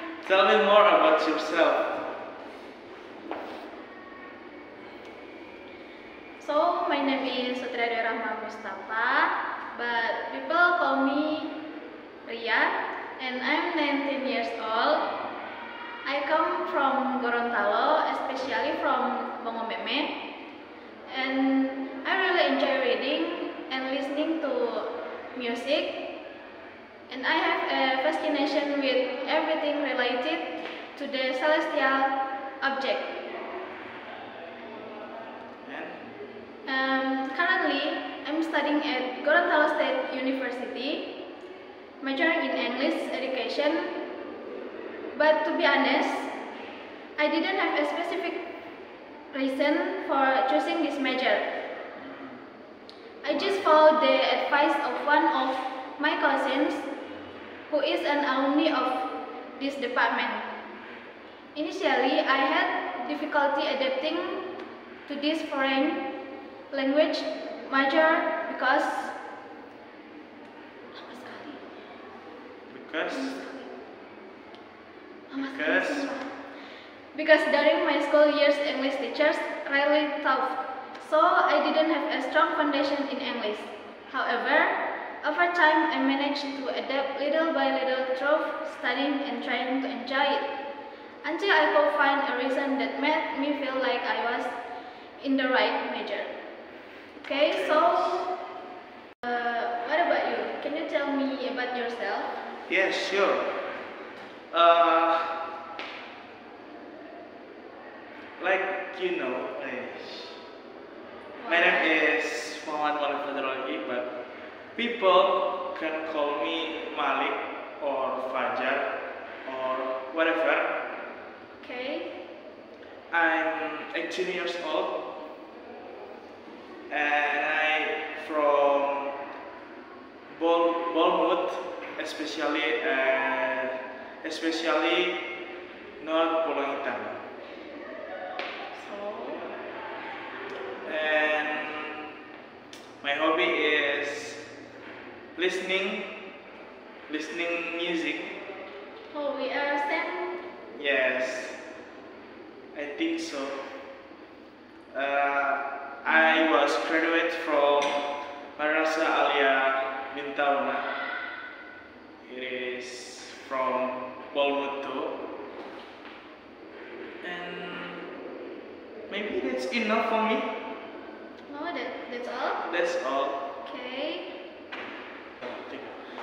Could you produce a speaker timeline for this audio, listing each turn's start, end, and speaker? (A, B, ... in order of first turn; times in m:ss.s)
0:00.2-0:02.0 A
0:06.4-0:11.6 B
0:12.2-0:15.1 B
0:16.0-0:20.2 B
0:21.1-0:26.1 B
0:27.1-0:33.1 B
0:35.6-0:36.1 A
0:36.7-0:41.1 B
0:42.0-0:44.0 B
0:45.1-0:46.3 B
0:47.2-0:48.4 B
0:49.3-0:51.5 B
0:52.0-0:52.4 A
0:53.2-0:56.9 B
0:53.3-0:53.6 A
0:57.7-1:00.5 B
1:01.6-1:04.5 B
1:05.1-1:06.0 B
1:06.7-1:09.2 B
1:10.9-1:11.6 B
1:12.7-1:13.4 A
1:13.1-1:13.7 B
1:15.3-1:16.3 B
1:15.4-1:16.1 A
1:17.1-1:30.5 B
1:31.2-1:34.6 B
1:35.2-1:36.3 B
1:37.2-1:38.3 B
1:37.3-1:38.2 A
1:39.2-1:42.4 B
1:42.7-1:43.5 A
1:44.5-1:45.4 A
1:48.4-1:50.4 A
1:51.4-1:51.9 B
1:51.5-1:54.1 A
1:54.8-1:58.9 A
1:59.4-2:00.8 A
2:01.6-2:02.2 B
2:03.1-2:05.1 A
2:06.9-2:09.2 A
2:10.3-2:15.2 A
2:16.0-2:17.2 A
2:18.7-2:19.5 B
2:20.8-2:22.1 A
2:23.0-2:24.4 A
2:25.4-2:26.1 A
2:27.1-2:28.4 A
2:29.1-2:30.4 B
2:30.8-2:31.6 A
2:32.7-2:33.6 A
2:34.9-2:40.9 A
2:36.1-2:36.5 B
2:42.2-2:45.2 A
2:47.2-2:48.1 A
2:49.1-2:50.5 A
2:51.5-2:52.6 B
2:52.6-2:53.4 A
2:53.6-2:54.4 B
2:55.4-2:56.0 A